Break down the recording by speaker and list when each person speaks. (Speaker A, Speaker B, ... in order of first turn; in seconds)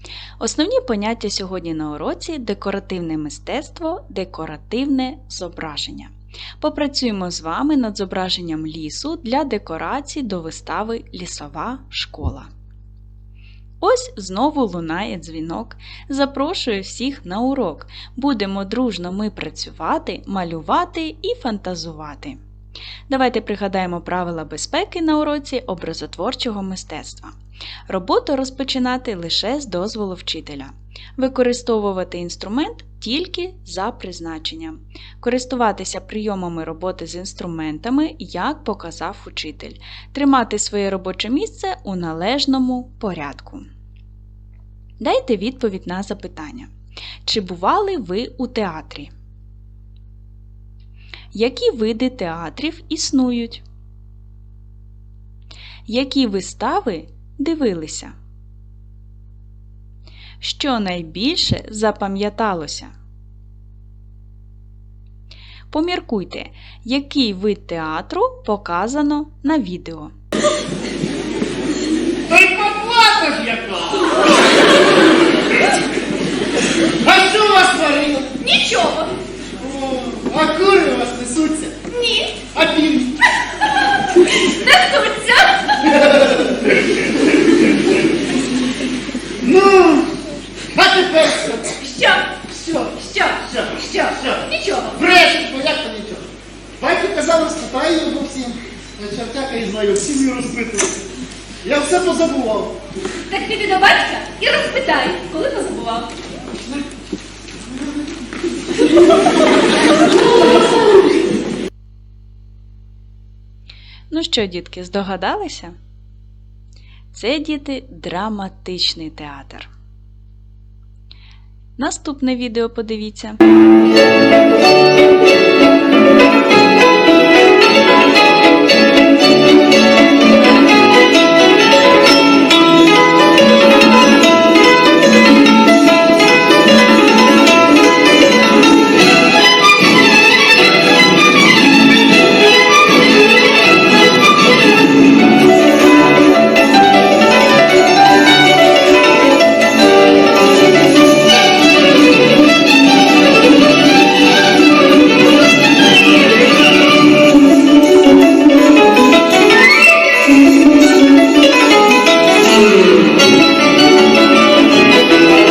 Speaker A: 0.4-12.5, 13.8-22.4, 23.1-27.3, 27.9-43.6, 45.0-46.7, 47.2-49.1, 51.3-53.6, 55.9-58.1, 60.4-62.9, 65.7-70.1, 114.1-115.7, 117.1-119.7, 121.8-123.4
Speaker B: 72.3-73.8, 77.0-78.3, 79.6-81.9, 82.5-83.1, 89.4-90.1, 90.8-91.7, 93.5-93.8, 94.9-96.2, 96.8-100.9, 101.6-102.7
Speaker C: 78.4-79.1, 81.9-82.5, 84.5-85.6, 91.8-95.5, 103.3-106.1